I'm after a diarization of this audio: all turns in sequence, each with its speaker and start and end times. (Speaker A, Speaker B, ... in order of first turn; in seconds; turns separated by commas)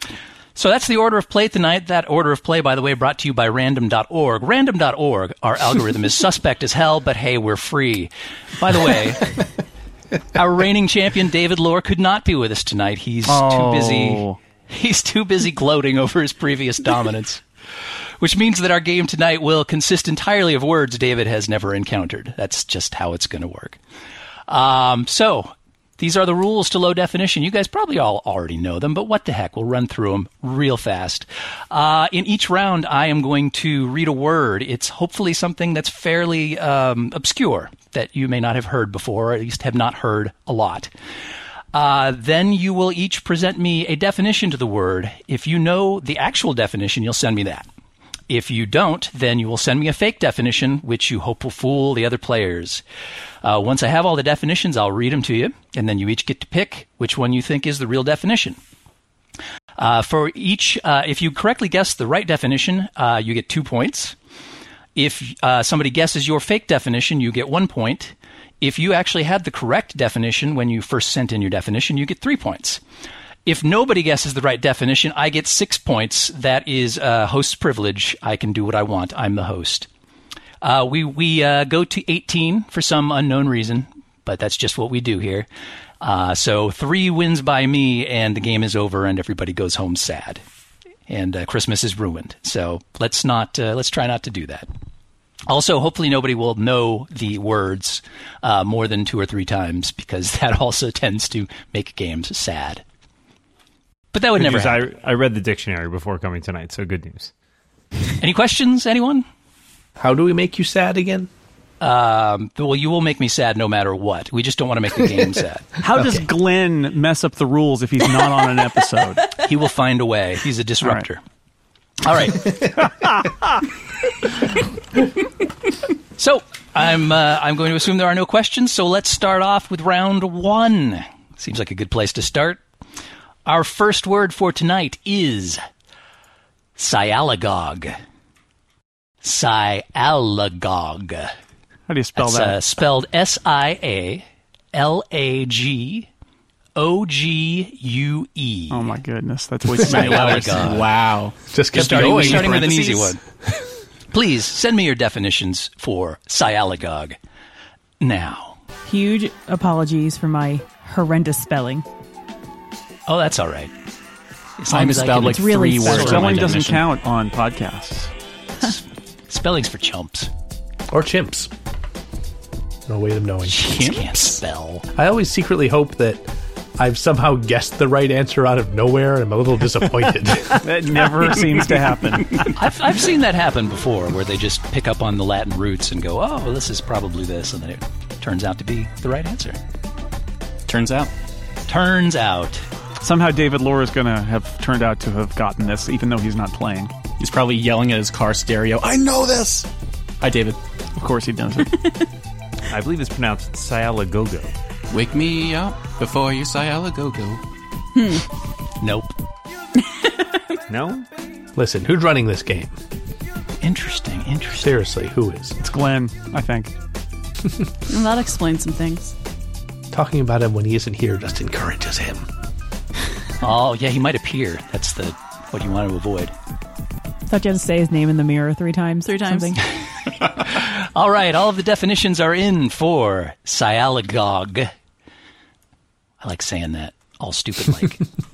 Speaker A: 0.6-9.4, Speaker A: 10.3-17.4, Speaker B: 13.3-14.4, Speaker A: 18.2-23.8, Speaker A: 24.5-40.9, Speaker A: 41.7-47.7, Speaker A: 48.3-52.8, Speaker A: 53.4-58.6, Speaker A: 59.8-64.2, Speaker A: 64.9-72.8, Speaker A: 73.5-79.9, Speaker A: 80.6-85.5, Speaker A: 86.0-90.4, Speaker A: 91.1-94.7, Speaker A: 95.5-102.8, Speaker A: 104.1-104.9, Speaker C: 104.4-107.3, Speaker A: 108.2-109.2, Speaker D: 110.0-111.3, Speaker A: 111.8-115.8, Speaker B: 115.8-119.3, Speaker A: 119.4-121.2, Speaker A: 122.0-122.7, Speaker B: 122.8-123.3, Speaker A: 126.2-132.6, Speaker A: 133.4-135.6, Speaker A: 136.8-137.9, Speaker A: 139.2-141.3, Speaker B: 141.9-142.6, Speaker A: 142.2-146.1, Speaker A: 146.8-148.9, Speaker B: 148.7-150.7, Speaker E: 149.8-153.2, Speaker A: 149.9-150.9, Speaker D: 151.5-152.7, Speaker A: 151.7-153.2, Speaker A: 154.1-157.2, Speaker A: 158.0-158.6, Speaker F: 158.9-161.9, Speaker A: 163.1-163.7, Speaker A: 164.6-166.4, Speaker E: 164.7-166.9, Speaker F: 165.3-166.2, Speaker B: 165.9-168.1, Speaker A: 168.6-170.3, Speaker D: 170.9-171.5, Speaker D: 172.9-174.3, Speaker A: 173.4-174.9, Speaker D: 174.9-180.7, Speaker B: 180.6-182.5, Speaker A: 182.4-189.6, Speaker E: 190.7-191.1, Speaker A: 191.7-192.6, Speaker B: 193.0-196.9, Speaker E: 197.2-199.7, Speaker E: 200.2-200.6, Speaker B: 201.0-201.8, Speaker C: 202.7-204.5, Speaker E: 204.9-207.4, Speaker G: 207.9-208.2, Speaker A: 208.8-209.1, Speaker G: 209.8-210.2, Speaker C: 210.7-211.1, Speaker D: 211.6-212.8, Speaker A: 213.6-214.7, Speaker D: 214.6-215.6, Speaker B: 215.6-216.7, Speaker G: 217.9-219.1, Speaker D: 219.9-222.2, Speaker A: 223.4-226.3, Speaker F: 227.3-229.6, Speaker G: 229.0-229.6, Speaker A: 230.1-234.7, Speaker A: 236.2-238.1